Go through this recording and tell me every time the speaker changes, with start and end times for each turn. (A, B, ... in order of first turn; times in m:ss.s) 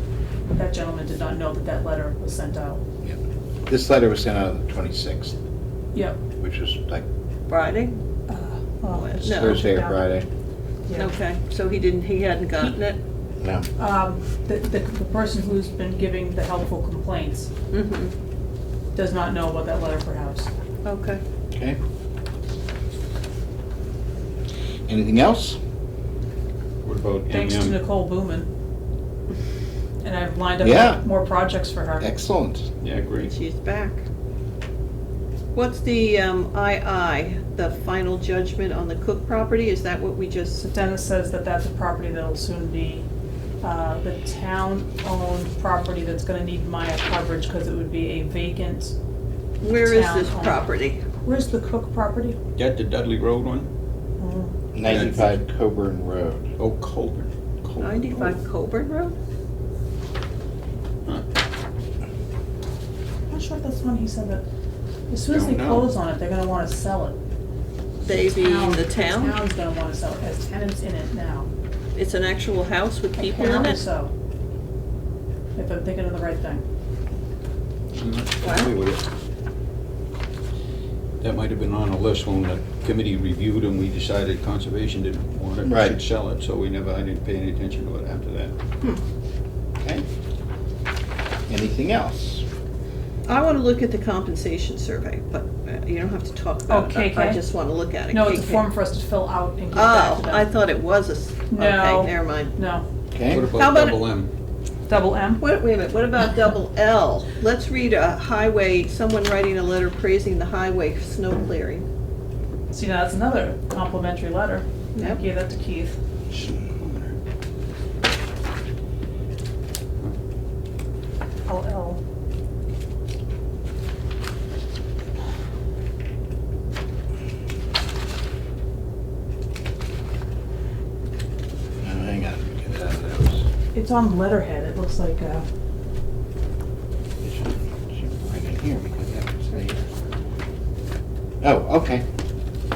0:00.5-0:02.8 A
0:03.0-0:05.3 B
0:05.9-0:06.2 A
0:06.4-0:07.0 B
0:07.5-0:08.0 C
0:08.3-0:10.0 A
0:08.9-0:09.6 C
0:09.2-0:10.2 B
0:10.9-0:11.1 A
0:11.0-0:13.0 C
0:13.8-0:17.5 A
0:17.7-0:18.1 C
0:18.9-0:20.5 A
0:20.8-0:21.2 C
0:24.9-0:25.6 B
0:26.8-0:27.8 D
0:27.3-0:28.5 A
0:30.0-0:32.1 A
0:30.6-0:31.0 B
0:32.0-0:32.7 B
0:32.8-0:33.3 D
0:33.2-0:34.0 C
0:35.5-0:40.6 C
0:40.6-0:43.1 A
0:43.6-0:48.9 A
0:49.6-0:51.0 C
0:49.8-0:50.6 A
0:51.2-0:52.4 A
0:52.6-0:53.7 D
0:54.2-0:54.5 A
0:54.7-0:56.5 B
0:54.8-0:55.4 D
0:56.6-0:58.4 D
0:57.8-0:59.1 C
1:03.3-1:04.4 A
1:05.1-1:07.2 A
1:05.3-1:05.9 D
1:08.0-1:09.4 C
1:08.3-1:11.5 A
1:12.0-1:13.8 C
1:13.2-1:14.1 A
1:15.6-1:16.6 A
1:17.9-1:19.0 D
1:18.4-1:18.7 C
1:21.2-1:28.5 D
1:25.6-1:26.0 B
1:29.8-1:30.0 B
1:31.5-1:32.4 B
1:33.3-1:38.6 C
1:36.7-1:37.4 A
1:38.1-1:40.5 A
1:39.7-1:42.5 C
1:41.5-1:42.8 A
1:43.1-1:43.5 B
1:43.3-1:44.3 D
1:43.5-1:44.1 C
1:44.9-1:45.4 A
1:45.4-1:51.8 C
1:52.7-1:56.0 A
1:55.0-1:55.2 C
1:56.3-1:57.2 D
2:01.4-2:02.0 A
2:11.8-2:13.4 B
2:13.7-2:15.4 A
2:17.2-2:19.8 B
2:21.4-2:22.0 B